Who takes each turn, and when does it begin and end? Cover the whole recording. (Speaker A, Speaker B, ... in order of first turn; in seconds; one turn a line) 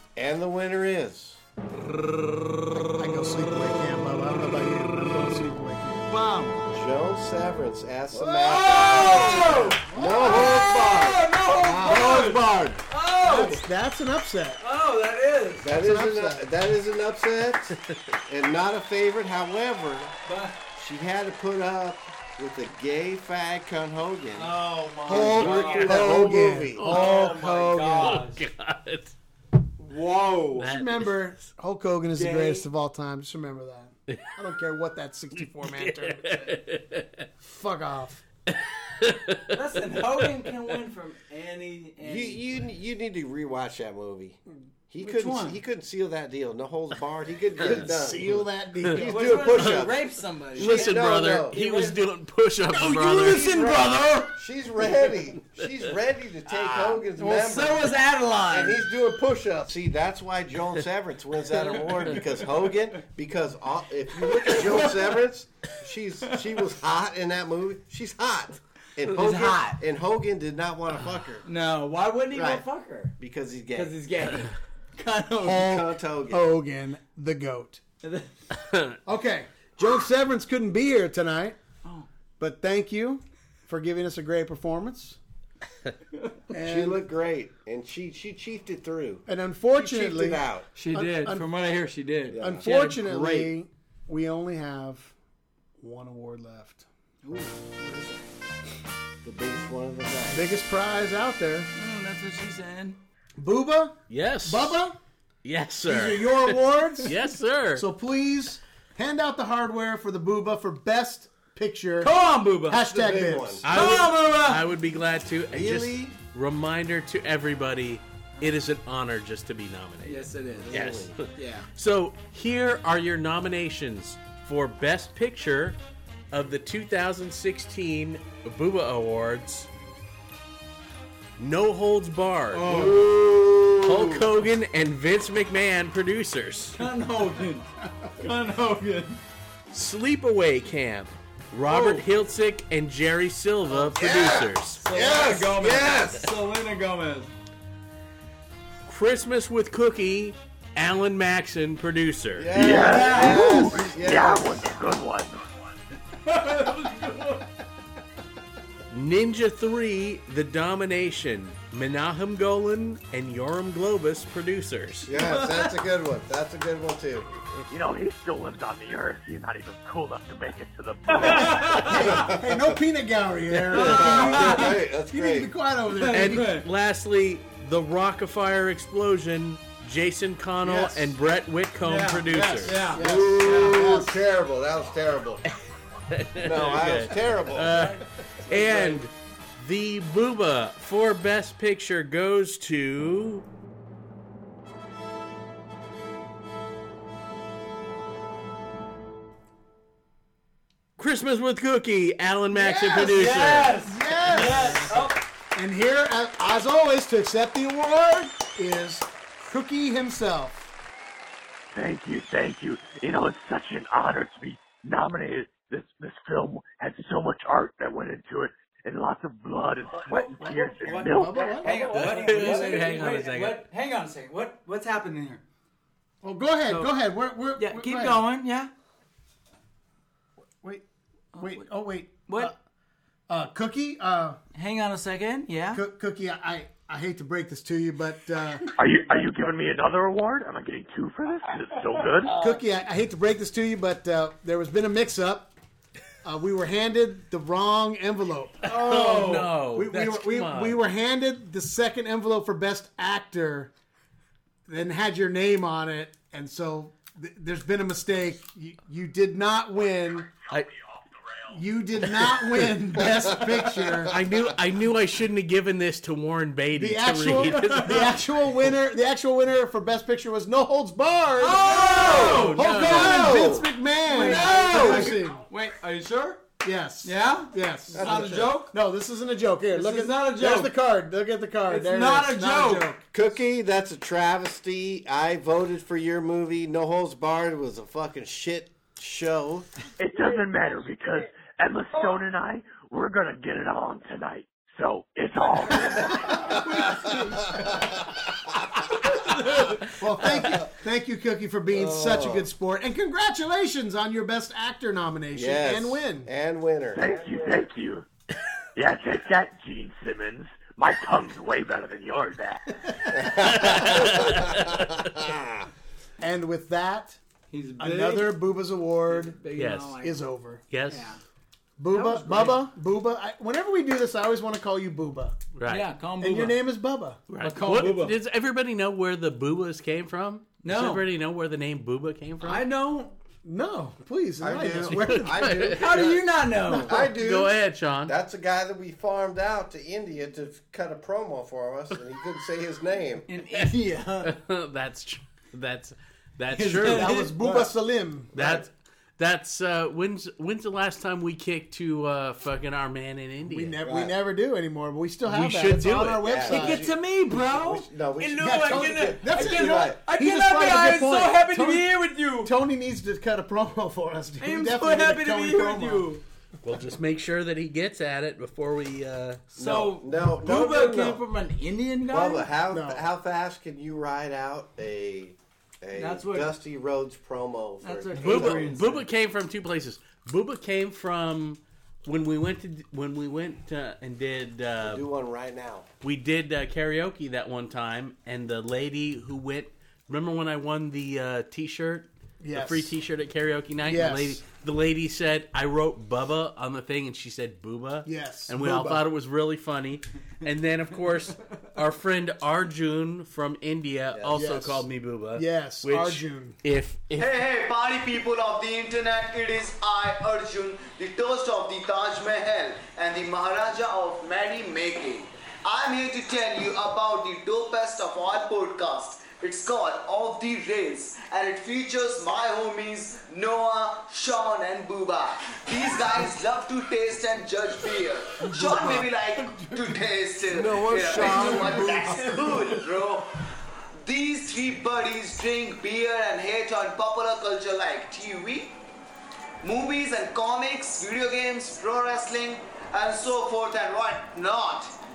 Speaker A: 0.1-1.4
Speaker B: 2.7-6.1
Speaker C: 6.1-6.6
Speaker A: 6.7-12.8
Speaker C: 8.1-13.6
Speaker B: 8.9-10.6
Speaker B: 11.8-12.2
Speaker B: 13.2-14.6
Speaker C: 14.6-15.7
Speaker A: 15.6-20.1
Speaker B: 15.7-16.5
Speaker C: 20.2-20.6
Speaker A: 20.7-27.0
Speaker C: 24.3-28.4
Speaker B: 25.1-28.2
Speaker D: 26.8-27.3
Speaker D: 28.0-29.1
Speaker C: 29.8-30.6
Speaker D: 30.6-31.2
Speaker B: 30.6-36.6
Speaker C: 32.1-32.7
Speaker D: 35.6-37.3
Speaker B: 37.4-38.2
Speaker D: 38.5-40.2
Speaker C: 39.5-42.5
Speaker A: 42.0-51.6
Speaker C: 45.0-45.6
Speaker B: 47.6-49.6
Speaker C: 49.0-52.0
Speaker D: 50.6-53.5
Speaker C: 52.7-54.4
Speaker A: 53.3-58.0
Speaker C: 56.5-58.8
Speaker A: 58.5-71.5
Speaker C: 61.5-62.2
Speaker C: 64.2-65.2
Speaker C: 69.1-69.8
Speaker C: 71.4-73.1
Speaker A: 72.3-72.6
Speaker A: 73.2-74.0
Speaker C: 73.7-75.8
Speaker A: 75.4-76.5
Speaker B: 75.5-77.8
Speaker C: 78.0-78.3
Speaker D: 78.5-78.9
Speaker B: 79.0-81.6
Speaker B: 82.4-85.2
Speaker B: 86.5-87.0
Speaker A: 86.5-90.7
Speaker B: 89.3-91.5
Speaker C: 90.7-93.5
Speaker A: 92.3-92.6
Speaker B: 92.3-95.1
Speaker B: 95.8-96.8
Speaker C: 97.2-98.2
Speaker A: 99.2-100.5
Speaker B: 100.3-101.7
Speaker C: 101.8-103.0
Speaker B: 103.4-105.0
Speaker D: 104.1-104.8
Speaker D: 105.4-107.8
Speaker B: 105.8-107.2
Speaker B: 107.7-112.1
Speaker C: 112.0-112.8
Speaker B: 112.7-113.7
Speaker A: 112.8-113.7
Speaker D: 113.6-125.8
Speaker C: 113.7-114.6
Speaker A: 115.5-116.1
Speaker C: 120.0-121.7
Speaker A: 120.6-121.2
Speaker D: 126.3-129.7
Speaker D: 131.4-132.7
Speaker C: 132.5-133.1
Speaker A: 132.6-134.3
Speaker D: 133.8-136.8
Speaker C: 136.7-139.2
Speaker D: 139.7-144.8
Speaker C: 141.7-142.1
Speaker A: 143.7-146.2
Speaker C: 144.8-147.3
Speaker D: 148.9-152.6
Speaker A: 152.3-154.7
Speaker E: 152.5-155.5
Speaker C: 152.7-153.7
Speaker B: 153.2-153.7
Speaker C: 156.2-157.5
Speaker D: 158.9-165.1
Speaker A: 165.1-167.3
Speaker C: 165.1-165.7
Speaker E: 167.7-171.6
Speaker C: 171.1-172.3
Speaker B: 171.2-176.5
Speaker A: 171.3-172.8
Speaker C: 173.7-174.8
Speaker A: 173.8-175.5
Speaker C: 175.9-176.7
Speaker D: 176.1-182.8
Speaker B: 180.6-181.2
Speaker C: 181.8-183.8
Speaker B: 182.3-184.2
Speaker A: 182.9-185.4
Speaker D: 186.1-193.4
Speaker A: 186.4-187.7
Speaker C: 187.7-189.0
Speaker D: 201.0-203.8
Speaker C: 202.5-205.2
Speaker B: 203.8-205.0
Speaker D: 204.4-204.9
Speaker B: 205.5-210.7
Speaker E: 211.7-221.7
Speaker C: 220.1-225.4
Speaker B: 220.4-222.8
Speaker D: 221.9-223.6
Speaker B: 226.2-228.2
Speaker C: 226.7-226.9
Speaker C: 227.6-228.7
Speaker C: 231.3-231.6
Speaker B: 231.3-232.5
Speaker C: 232.3-232.5
Speaker B: 233.3-234.4
Speaker C: 234.5-235.8
Speaker B: 235.7-238.7
Speaker E: 238.8-242.3
Speaker B: 242.2-245.5
Speaker B: 246.2-253.7
Speaker C: 248.6-249.5
Speaker D: 248.7-250.8
Speaker B: 254.7-260.3
Speaker B: 261.5-264.1
Speaker A: 263.1-264.3
Speaker D: 264.1-268.2
Speaker B: 266.7-275.4
Speaker C: 267.5-268.1
Speaker C: 271.4-276.4
Speaker A: 271.9-275.1
Speaker D: 272.0-273.3
Speaker B: 276.6-283.1
Speaker C: 277.0-278.7
Speaker A: 277.9-278.6
Speaker C: 279.7-280.7
Speaker C: 281.7-282.9
Speaker A: 283.1-289.7
Speaker E: 290.0-296.4
Speaker B: 295.9-297.7
Speaker A: 296.2-297.2
Speaker C: 296.4-297.9
Speaker A: 297.8-298.0
Speaker C: 299.0-299.9
Speaker B: 299.9-306.3
Speaker A: 301.7-302.5
Speaker A: 305.3-307.1
Speaker E: 306.9-308.1
Speaker E: 308.8-312.7
Speaker B: 312.8-313.2
Speaker A: 313.1-315.7
Speaker D: 313.3-315.1
Speaker B: 316.2-317.2
Speaker C: 317.5-318.4
Speaker B: 317.8-319.4
Speaker C: 319.1-320.2
Speaker D: 319.6-320.0
Speaker B: 320.0-320.6
Speaker D: 320.7-321.1
Speaker C: 320.8-321.2
Speaker B: 321.8-325.4
Speaker C: 321.9-322.6
Speaker D: 325.5-325.9
Speaker C: 325.6-326.6
Speaker B: 326.2-327.2
Speaker D: 327.3-332.6
Speaker C: 327.4-328.2
Speaker C: 330.6-331.0
Speaker C: 332.4-333.1
Speaker B: 333.4-335.7
Speaker A: 334.4-336.2
Speaker D: 334.9-336.1
Speaker C: 335.7-337.0
Speaker B: 336.6-337.0
Speaker A: 336.9-343.3
Speaker D: 337.0-338.2
Speaker C: 343.3-344.3
Speaker D: 344.2-347.3
Speaker C: 346.5-347.3
Speaker B: 346.8-348.3
Speaker A: 347.4-347.7
Speaker A: 348.3-348.6
Speaker D: 348.3-353.8
Speaker B: 353.5-356.9
Speaker A: 353.8-354.1
Speaker D: 355.2-356.5
Speaker A: 356.2-360.0
Speaker C: 356.5-362.5
Speaker B: 358.4-366.1
Speaker C: 364.4-366.2
Speaker D: 366.6-369.4
Speaker A: 369.5-371.2
Speaker C: 369.5-372.5
Speaker A: 372.1-378.7
Speaker B: 372.7-373.1
Speaker C: 375.9-376.5
Speaker C: 377.8-379.1
Speaker D: 378.1-385.0
Speaker A: 384.8-385.9
Speaker D: 386.0-407.4
Speaker B: 392.4-392.9
Speaker B: 393.8-394.4
Speaker B: 398.0-399.0
Speaker A: 404.1-404.5
Speaker B: 404.3-406.6
Speaker F: 407.2-433.3
Speaker C: 428.4-429.7
Speaker B: 428.6-429.0
Speaker A: 430.5-432.3
Speaker C: 430.8-432.6
Speaker F: 434.0-438.8
Speaker F: 439.6-444.9